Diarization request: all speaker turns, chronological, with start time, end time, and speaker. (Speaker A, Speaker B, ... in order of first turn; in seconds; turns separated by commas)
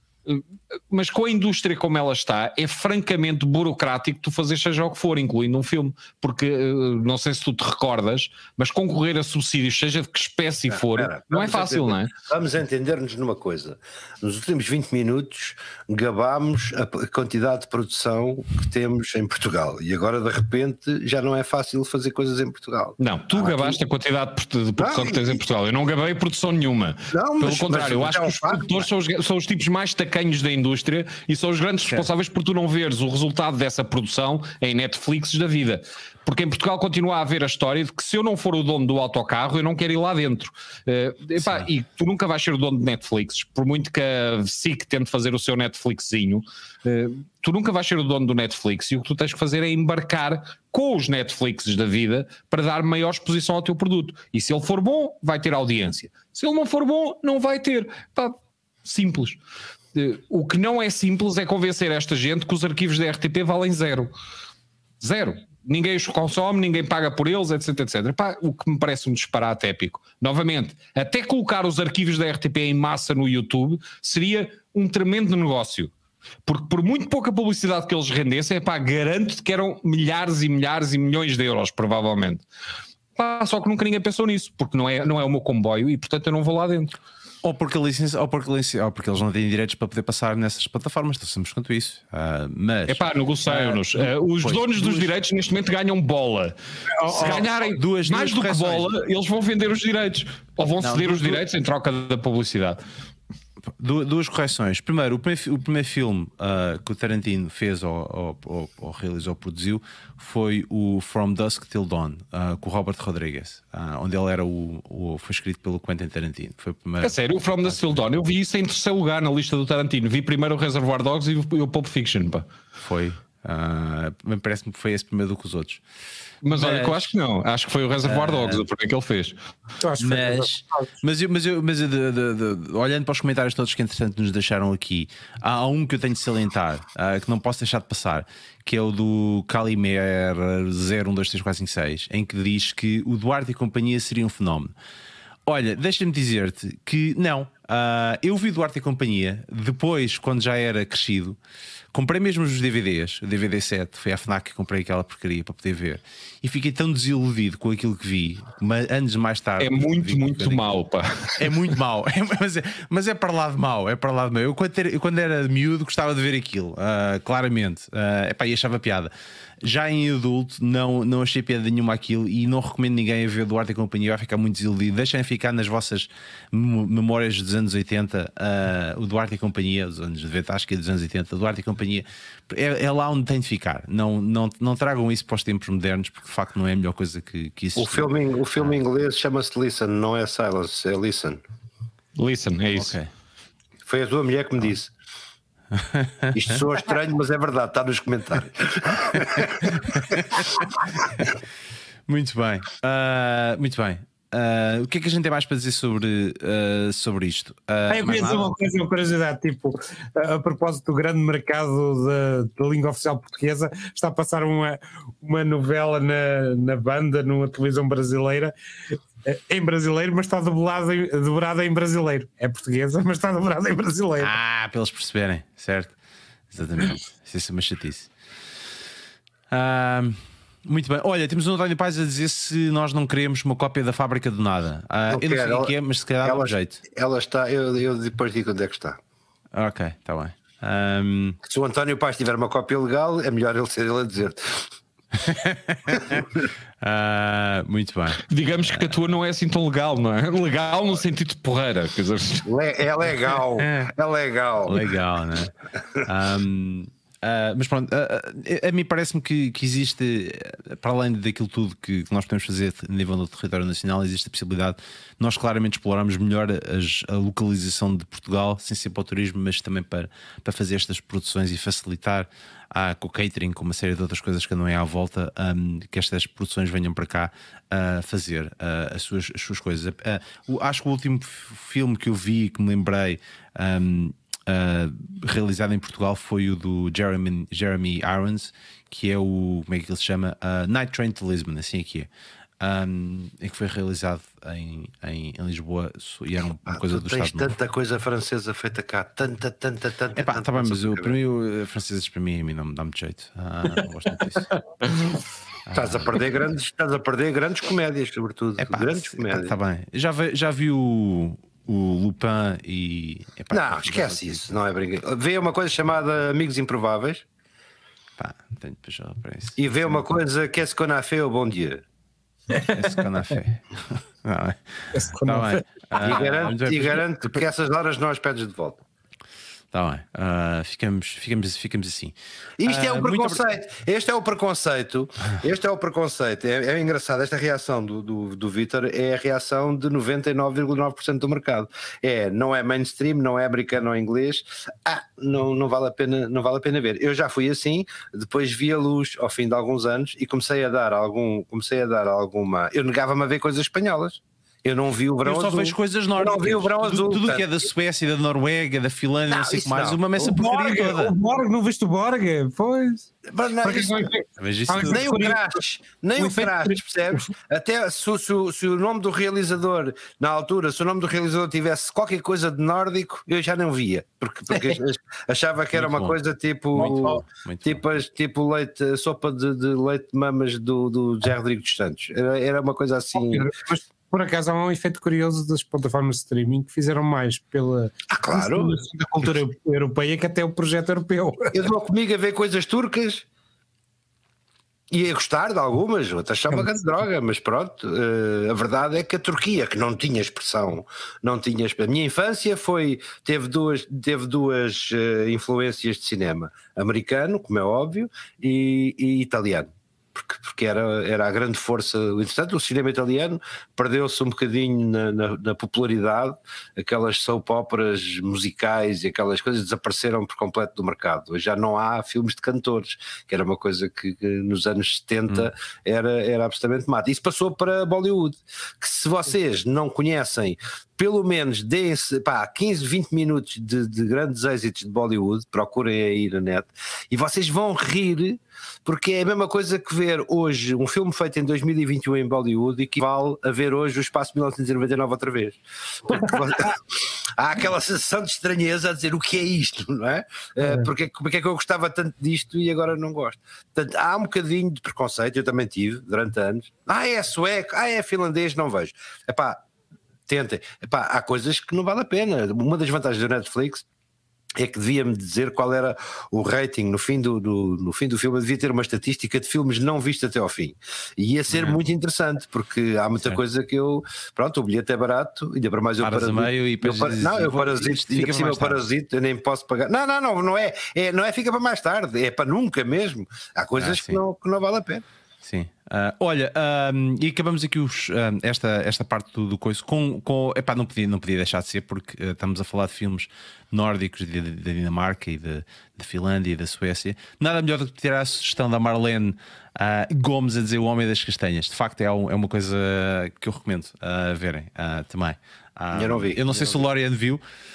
Speaker A: 0.3-12.1, Speaker B: 10.7-23.8, Speaker A: 23.0-59.4, Speaker B: 24.8-25.4, Speaker B: 27.1-28.8, Speaker C: 41.4-41.7, Speaker A: 59.9-64.1, Speaker A: 65.0-75.9, Speaker A: 76.5-82.5, Speaker A: 83.2-86.9, Speaker C: 87.4-95.1, Speaker A: 92.9-102.8, Speaker D: 97.0-97.4, Speaker C: 97.2-98.9, Speaker C: 100.8-101.4, Speaker C: 103.7-118.0, Speaker A: 117.0-122.5, Speaker C: 122.8-125.8, Speaker A: 126.4-129.4, Speaker C: 126.5-127.2, Speaker C: 128.0-128.7, Speaker D: 129.8-130.9, Speaker C: 130.0-144.7, Speaker C: 145.5-151.4, Speaker C: 151.9-160.7, Speaker A: 159.6-161.4, Speaker C: 161.4-169.1, Speaker C: 169.6-188.8, Speaker B: 187.8-191.4, Speaker A: 192.2-193.0, Speaker C: 192.7-193.1, Speaker B: 193.8-194.9, Speaker C: 195.7-196.6, Speaker B: 196.3-201.3, Speaker C: 199.1-200.5, Speaker C: 202.1-208.5, Speaker D: 207.9-224.3, Speaker C: 224.2-225.9, Speaker C: 226.5-228.1, Speaker C: 229.5-236.8, Speaker B: 235.1-239.0, Speaker C: 239.5-241.4, Speaker B: 241.4-244.6, Speaker C: 245.2-246.2, Speaker B: 246.0-246.2, Speaker C: 246.8-248.9, Speaker A: 248.3-252.5, Speaker B: 252.4-254.9, Speaker C: 254.7-255.5, Speaker C: 256.0-292.1, Speaker C: 292.6-297.6, Speaker B: 296.7-301.1, Speaker C: 300.1-304.5, Speaker C: 305.7-306.3, Speaker B: 305.8-309.5, Speaker C: 308.6-314.4, Speaker B: 313.5-317.3, Speaker C: 318.2-320.1, Speaker B: 319.6-321.8, Speaker D: 322.5-322.8, Speaker C: 322.7-327.4, Speaker D: 324.9-326.4, Speaker B: 326.0-328.8, Speaker C: 329.7-333.4, Speaker B: 332.6-357.5, Speaker C: 355.2-361.1, Speaker B: 359.3-360.0, Speaker D: 360.2-365.6, Speaker B: 363.3-364.1, Speaker C: 364.4-365.1, Speaker B: 364.8-383.5, Speaker D: 366.2-367.2, Speaker C: 375.7-376.2, Speaker D: 376.8-377.1, Speaker C: 376.8-377.8, Speaker D: 383.2-391.7, Speaker B: 388.1-388.8, Speaker B: 391.5-393.3, Speaker B: 394.9-459.6, Speaker D: 396.5-396.8, Speaker D: 450.6-450.9, Speaker B: 460.3-463.9, Speaker B: 464.6-485.1, Speaker C: 471.5-471.8, Speaker C: 476.0-478.9, Speaker C: 483.8-484.2, Speaker C: 485.4-507.4, Speaker B: 505.9-506.9